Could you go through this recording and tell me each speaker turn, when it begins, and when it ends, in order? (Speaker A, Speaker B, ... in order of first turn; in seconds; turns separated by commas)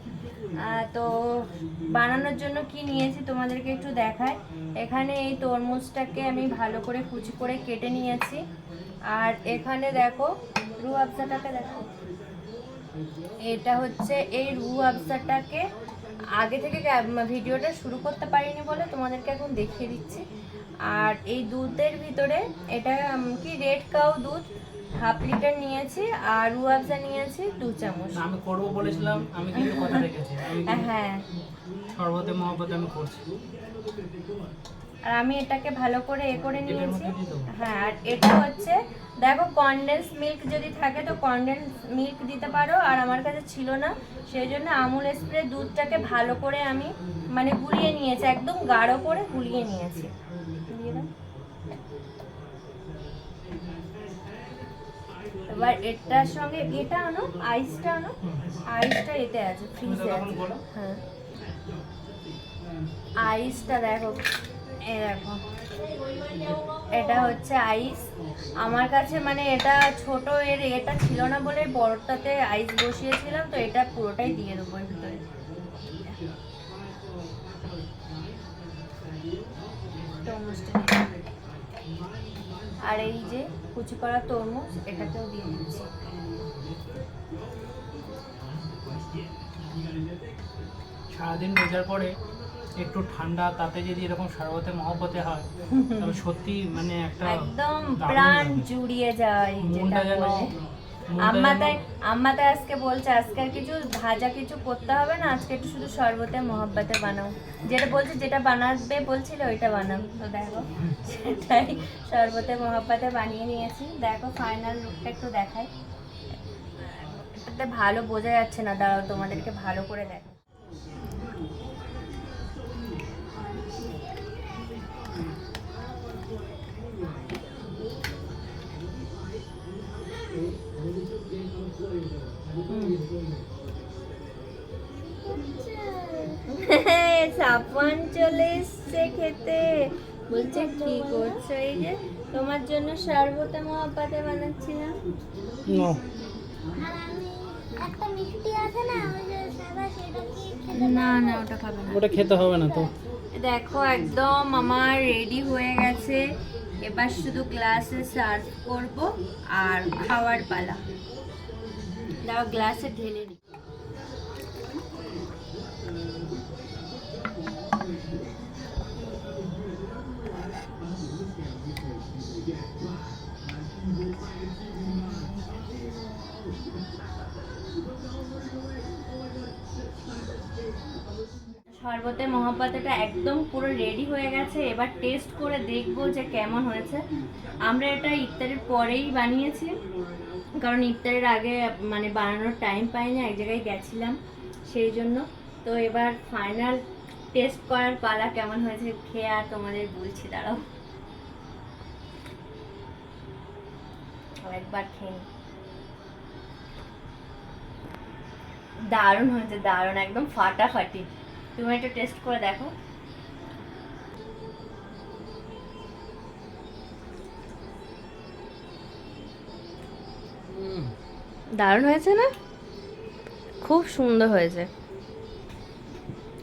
Speaker A: 0.5-8.4, Speaker A: 9.1-11.9, Speaker A: 13.4-15.7, Speaker A: 16.4-20.2, Speaker A: 20.8-24.4, Speaker A: 25.0-28.2, Speaker B: 28.1-30.9, Speaker A: 29.5-30.1, Speaker A: 30.6-31.2, Speaker B: 31.9-33.2, Speaker A: 35.1-50.1, Speaker B: 36.6-37.5, Speaker A: 50.7-51.1, Speaker A: 55.5-61.0, Speaker B: 58.2-58.6, Speaker B: 59.8-60.6, Speaker A: 63.2-64.2, Speaker A: 64.8-65.4, Speaker C: 65.8-66.9, Speaker A: 66.9-68.0, Speaker A: 68.6-75.2, Speaker A: 75.8-76.2, Speaker A: 80.2-81.2, Speaker A: 82.8-85.9, Speaker B: 91.1-92.1, Speaker B: 92.8-95.5, Speaker A: 95.7-96.2, Speaker B: 96.0-98.7, Speaker A: 97.2-100.5, Speaker B: 99.6-100.5, Speaker B: 101.1-101.8, Speaker A: 101.2-115.7, Speaker A: 116.8-120.3, Speaker A: 132.7-133.1, Speaker A: 135.2-145.0, Speaker C: 135.4-136.4, Speaker C: 140.3-141.3, Speaker B: 145.7-146.0, Speaker C: 146.7-151.5, Speaker A: 150.7-152.0, Speaker B: 151.9-152.9, Speaker A: 153.3-156.3, Speaker A: 156.8-160.8, Speaker A: 162.2-163.4, Speaker A: 181.7-187.0, Speaker A: 187.6-189.8, Speaker A: 190.6-200.7, Speaker A: 204.4-205.2, Speaker A: 208.9-212.7, Speaker B: 220.5-220.9, Speaker A: 221.6-222.3, Speaker A: 223.6-224.7